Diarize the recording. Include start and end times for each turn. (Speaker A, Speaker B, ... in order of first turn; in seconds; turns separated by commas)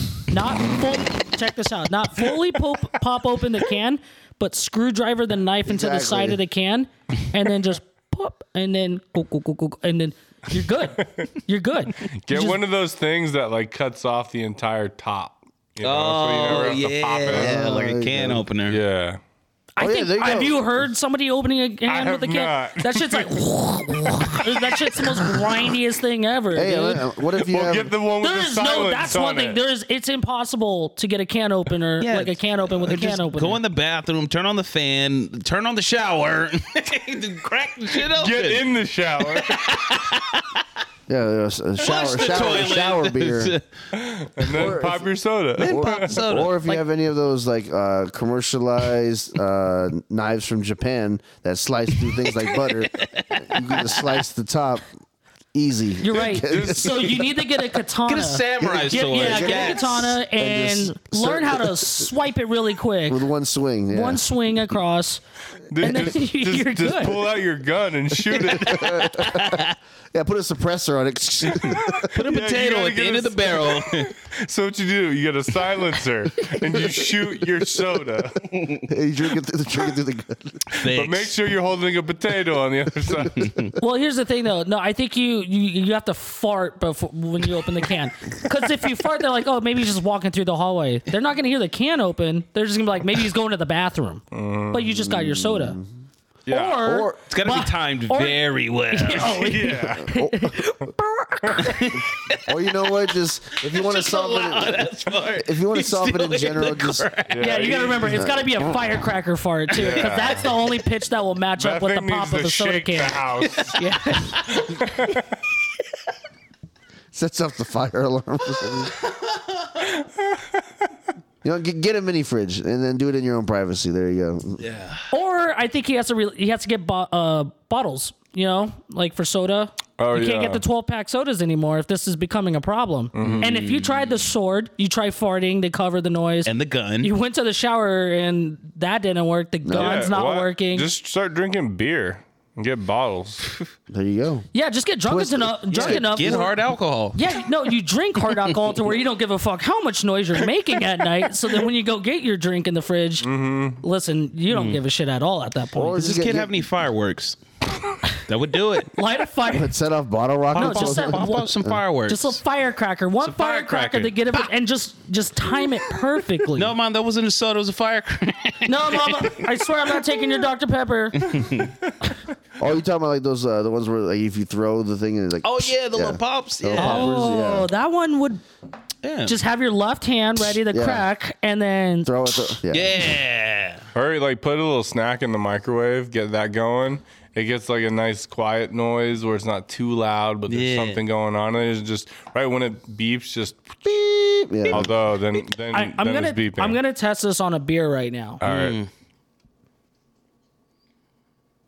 Speaker A: 0.3-12.6, Speaker B: 5.7-6.4, Speaker C: 12.2-17.6, Speaker D: 15.8-18.8, Speaker B: 17.3-18.4, Speaker C: 18.7-19.2, Speaker A: 19.8-27.0, Speaker B: 19.8-20.7, Speaker C: 21.9-23.4, Speaker C: 24.0-25.5, Speaker B: 26.5-27.9, Speaker C: 27.4-29.6, Speaker A: 28.2-33.6, Speaker D: 32.0-38.7, Speaker C: 38.0-39.8, Speaker D: 39.2-40.6, Speaker B: 41.1-43.5, Speaker D: 41.8-43.9, Speaker C: 43.9-46.1, Speaker D: 44.4-44.7, Speaker B: 44.5-45.1, Speaker D: 45.6-46.8, Speaker B: 45.6-54.9, Speaker D: 52.2-54.2, Speaker B: 55.5-57.2, Speaker A: 56.0-63.2, Speaker C: 56.5-57.1, Speaker D: 58.0-60.1, Speaker B: 58.6-62.1, Speaker B: 63.1-64.2, Speaker A: 63.9-65.2, Speaker C: 65.7-69.1, Speaker A: 65.8-67.2, Speaker D: 68.3-69.7, Speaker B: 68.6-72.1, Speaker D: 71.4-74.1, Speaker C: 71.7-78.7, Speaker B: 78.9-80.7, Speaker D: 80.7-81.3, Speaker C: 80.8-83.6, Speaker D: 83.3-83.7, Speaker A: 83.8-95.8, Speaker C: 94.3-94.9, Speaker B: 94.9-95.9, Speaker C: 96.5-96.9, Speaker A: 96.5-98.4, Speaker B: 96.8-97.2, Speaker D: 97.2-99.6, Speaker A: 98.9-101.8, Speaker C: 99.2-100.2, Speaker B: 100.0-100.5, Speaker C: 101.4-101.8, Speaker D: 101.6-102.9, Speaker B: 102.5-107.1, Speaker D: 103.6-107.6, Speaker C: 107.3-108.3, Speaker A: 107.4-113.2, Speaker B: 108.0-108.8, Speaker D: 109.7-110.6, Speaker C: 109.8-110.5, Speaker C: 111.6-113.8, Speaker D: 113.4-114.6, Speaker A: 113.7-114.8, Speaker C: 114.5-115.2, Speaker B: 117.1-118.9, Speaker D: 119.0-119.7, Speaker B: 121.4-124.6, Speaker D: 124.6-125.1, Speaker A: 125.1-140.9, Speaker C: 130.0-130.6, Speaker C: 133.1-133.5, Speaker D: 133.2-134.1, Speaker D: 136.4-137.1, Speaker B: 139.6-140.1, Speaker C: 139.7-143.5, Speaker B: 143.9-144.4, Speaker A: 144.5-146.6, Speaker B: 145.1-146.5, Speaker D: 145.7-147.2, Speaker A: 147.1-153.3, Speaker C: 153.2-153.8, Speaker A: 153.8-156.0, Speaker D: 154.5-154.8, Speaker B: 155.7-156.5, Speaker D: 155.9-157.4, Speaker D: 158.2-158.9, Speaker A: 158.9-159.7, Speaker B: 159.5-161.8, Speaker D: 160.5-162.4, Speaker A: 160.6-161.5, Speaker A: 162.1-166.7, Speaker D: 163.2-164.5, Speaker D: 165.6-170.3, Speaker A: 168.7-171.4, Speaker D: 171.2-171.7, Speaker B: 172.6-177.7, Speaker D: 175.4-177.3, Speaker A: 176.7-178.4, Speaker D: 179.0-179.3, Speaker A: 179.2-182.5, Speaker B: 180.7-181.0, Speaker B: 182.0-183.0, Speaker D: 182.7-183.8, Speaker C: 183.9-193.8, Speaker D: 190.5-191.0, Speaker B: 193.8-194.9, Speaker D: 194.6-195.4, Speaker C: 194.7-196.8, Speaker A: 195.7-198.4, Speaker C: 198.4-198.8, Speaker D: 198.4-198.9